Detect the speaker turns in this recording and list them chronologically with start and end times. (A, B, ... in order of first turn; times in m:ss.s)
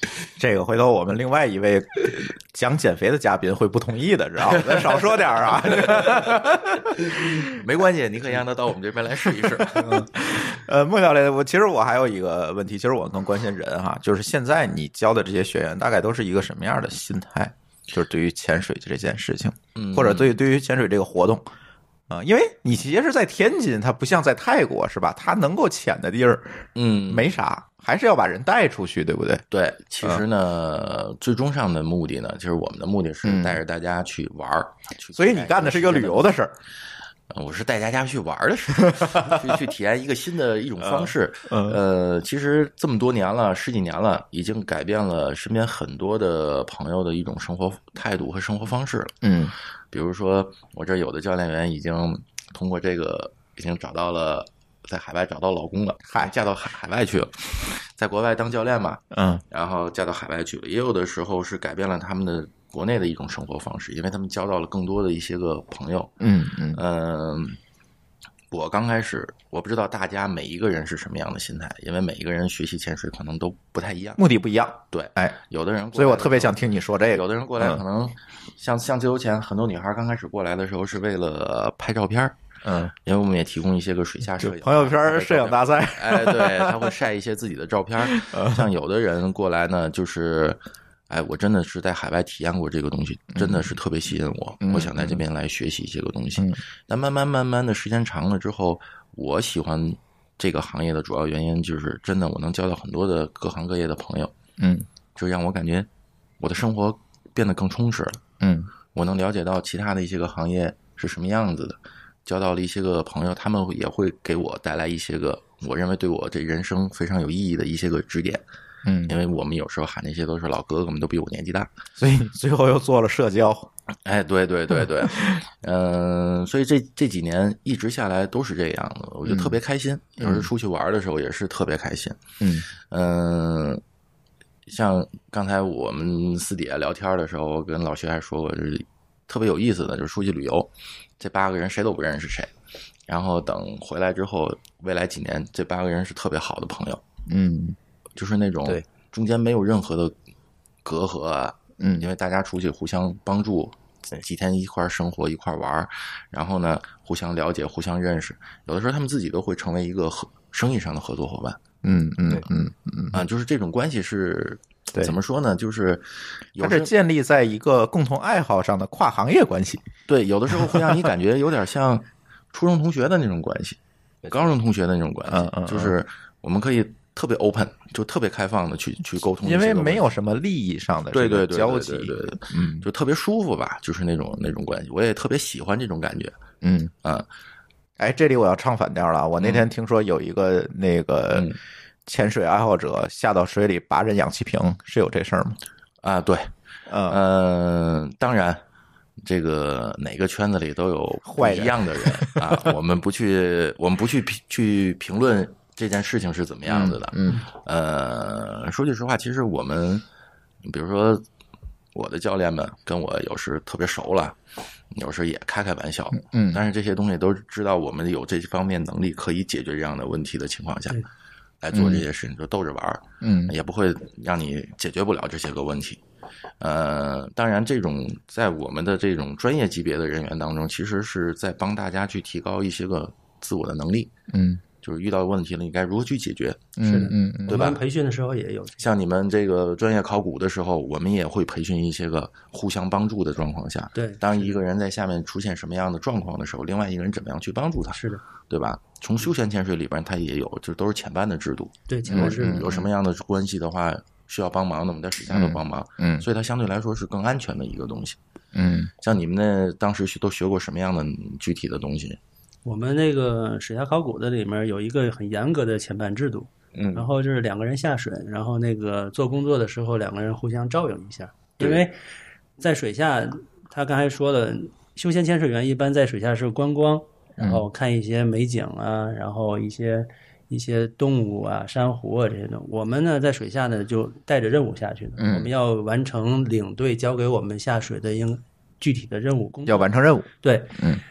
0:00.4-0:07.6 A
0:04.5-0:06.4 B
0:07.2-0:10.1 B
0:09.6-0:21.4 A
0:19.7-0:20.4 B
0:22.1-0:29.4 A
0:26.7-0:27.3 B
0:29.5-0:36.3 B
0:33.2-0:33.6 A
0:35.1-0:36.5 A
0:37.3-0:49.2 B
0:38.9-0:39.6 A
0:40.8-0:41.8 A
0:49.2-0:49.5 A
0:49.9-1:06.2 B
0:59.1-0:59.4 A
1:06.2-1:06.8 A
1:06.7-1:07.6 B
1:08.5-1:14.2 B
1:14.2-1:15.4 A
1:14.9-1:22.4 B
1:15.9-1:17.8 A
1:22.6-1:22.9 A
1:22.9-1:44.3 B
1:24.4-1:26.8 A
1:28.1-1:28.6 A
1:33.3-1:33.7 A
1:34.6-1:35.2 A
1:44.6-1:44.8 A
1:45.2-1:45.9 B
1:46.4-1:48.2 B
1:48.4-1:48.7 A
1:48.9-1:58.4 B
1:58.8-1:59.2 A
1:59.1-2:01.7 B
2:02.0-2:03.7 A
2:04.0-2:12.2 B
2:09.2-2:09.6 A
2:10.2-2:10.5 A
2:12.4-2:12.7 A
2:12.8-2:13.8 B
2:14.7-2:22.5 B
2:23.1-2:27.0 B
2:27.3-2:27.8 A
2:28.2-2:30.1 B
2:30.8-2:41.6 B
2:31.8-2:32.1 A
2:41.8-2:43.2 A
2:43.1-2:46.9 B
2:46.6-2:49.8 A
2:50.1-3:00.1 B
2:50.6-2:50.9 A
2:55.3-2:56.0 A
2:59.4-3:02.8 A
3:01.1-3:06.4 B
3:06.6-3:06.9 A
3:08.0-3:11.5 A
3:09.4-3:09.6 B
3:12.0-3:15.6 A
3:16.0-3:16.5 B
3:16.9-3:17.2 A
3:17.1-3:18.6 B
3:19.2-3:30.0 B
3:21.2-3:22.7 A
3:26.7-3:27.4 A
3:30.6-3:31.2 B
3:31.9-3:34.4 B
3:34.9-3:41.0 B
3:36.1-3:36.6 A
3:41.6-3:46.0 B
3:41.7-3:42.0 A
3:43.2-3:43.5 A
3:46.6-3:54.1 B
3:54.3-3:54.6 A
3:54.8-3:56.7 B
3:56.8-3:57.7 A
3:56.8-3:58.9 C
3:57.5-3:57.8 B
3:58.8-4:18.2 B
4:03.9-4:04.6 C
4:07.9-4:08.2 C
4:11.9-4:12.8 C
4:12.1-4:12.8 A
4:15.3-4:16.2 A
4:18.5-4:18.9 A
4:19.0-4:22.2 B
4:22.6-4:32.0 C
4:26.8-4:27.1 B
4:32.6-4:50.8 C
4:37.4-4:37.6 A
4:45.2-4:45.5 A
4:49.6-4:51.0 A